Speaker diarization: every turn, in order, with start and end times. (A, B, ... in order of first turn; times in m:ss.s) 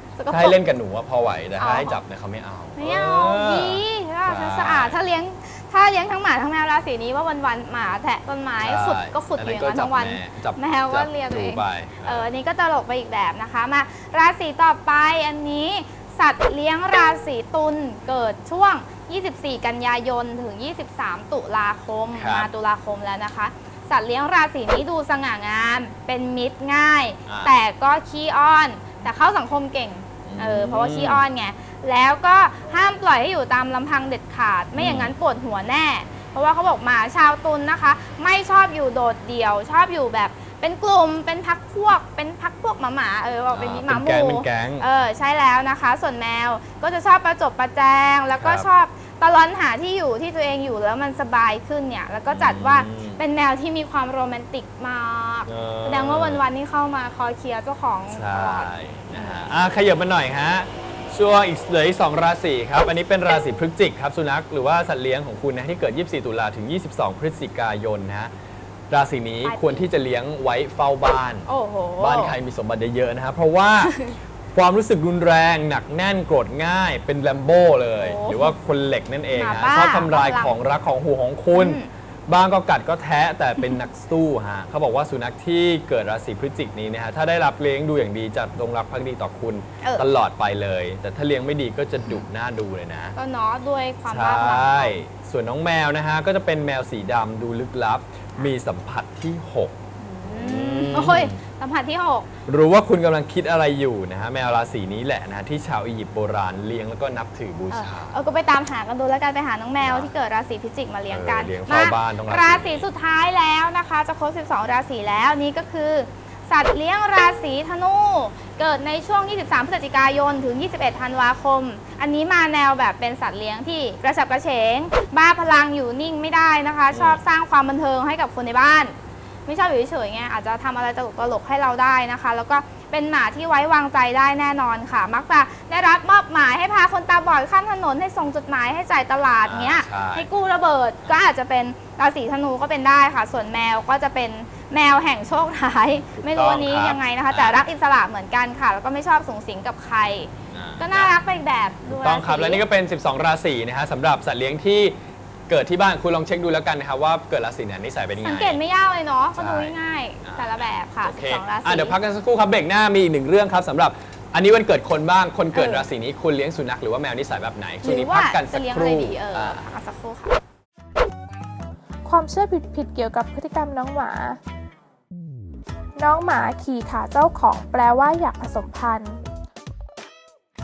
0:00.2-0:00.6 A
0:00.3-0:05.0 B
0:01.6-0:02.0 A
0:02.8-0:59.4 A
0:08.6-0:12.3 B
0:22.1-0:22.5 B
0:27.3-0:27.5 B
0:30.2-0:31.2 B
0:34.8-0:35.1 B
0:43.5-0:44.9 B
0:48.4-0:48.7 B
0:52.3-0:53.2 B
0:55.4-0:56.4 B
0:58.1-1:08.3 B
1:08.9-1:14.0 B
1:09.4-1:09.9 A
1:11.5-1:12.4 A
1:13.8-1:14.1 A
1:14.5-1:33.1 B
1:18.0-1:18.6 A
1:19.3-1:20.5 A
1:21.5-1:21.9 A
1:29.8-1:30.1 A
1:33.1-1:35.0 A
1:34.1-1:41.4 B
1:40.0-1:42.3 A
1:42.5-1:48.3 B
1:47.7-2:32.6 A
1:49.8-1:50.1 B
1:51.1-1:52.9 B
2:06.9-2:07.2 B
2:19.4-2:20.3 B
2:26.2-2:27.6 B
2:30.5-2:31.2 B
2:31.8-2:35.0 B
2:35.5-2:38.6 B
2:38.2-2:42.0 A
2:39.3-2:49.6 B
2:45.5-2:45.9 A
2:47.8-2:50.4 A
2:52.0-2:54.4 C
2:56.0-2:59.2 C